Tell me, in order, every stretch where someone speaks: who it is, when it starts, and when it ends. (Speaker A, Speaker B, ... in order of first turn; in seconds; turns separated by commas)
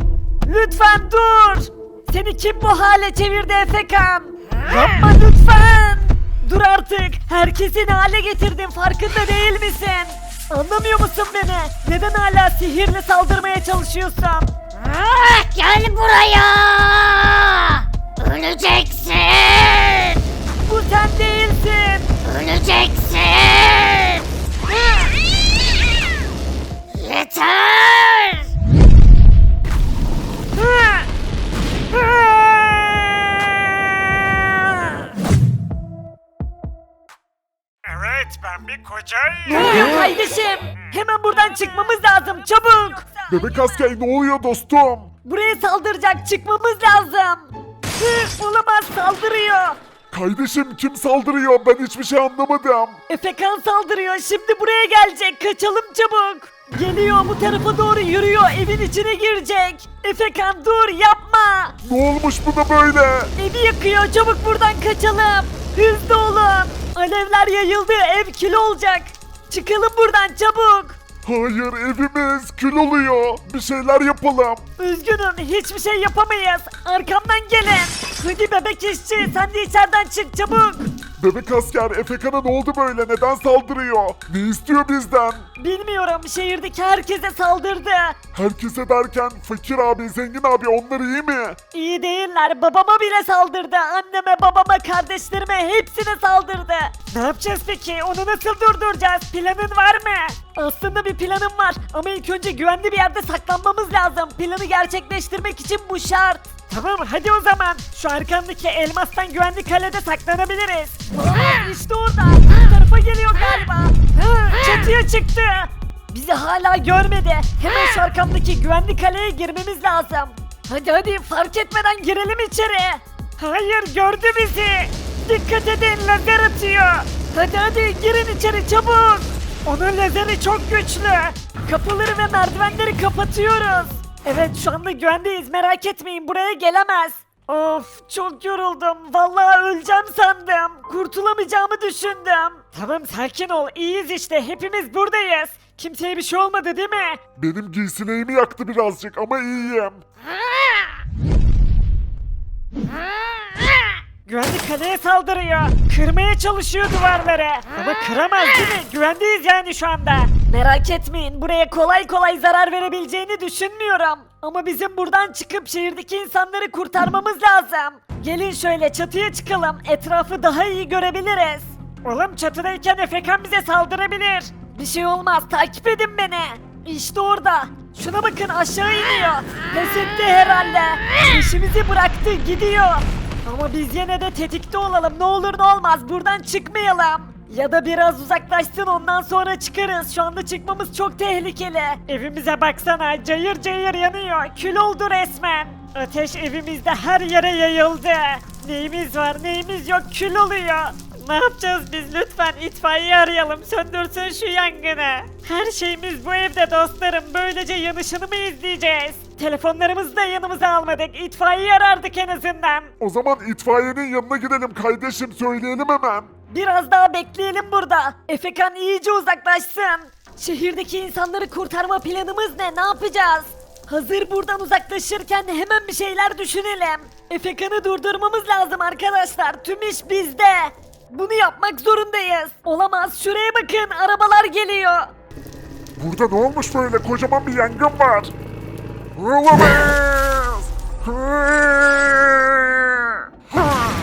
Speaker A: 0.4-14.5, Speaker B: 14.8-20.2, Speaker A: 20.6-22.1, Speaker B: 22.2-24.2, Speaker B: 26.9-28.5, Speaker A: 32.1-33.5, Speaker A: 37.8-43.3, Speaker C: 43.3-45.1, Speaker A: 45.3-49.8, Speaker C: 50.1-53.0, Speaker A: 53.1-61.8, Speaker C: 61.8-63.3, Speaker A: 63.4-71.0, Speaker C: 71.2-74.7, Speaker A: 74.8-80.9, Speaker C: 81.2-85.5, Speaker A: 85.6-88.2, Speaker C: 88.3-91.6, Speaker A: 91.7-147.2, Speaker C: 147.4-150.0, Speaker A: 154.3-212.9, Speaker C: 213.0-216.3, Speaker A: 216.5-235.1, Speaker C: 236.0-238.3, Speaker C: 239.2-243.1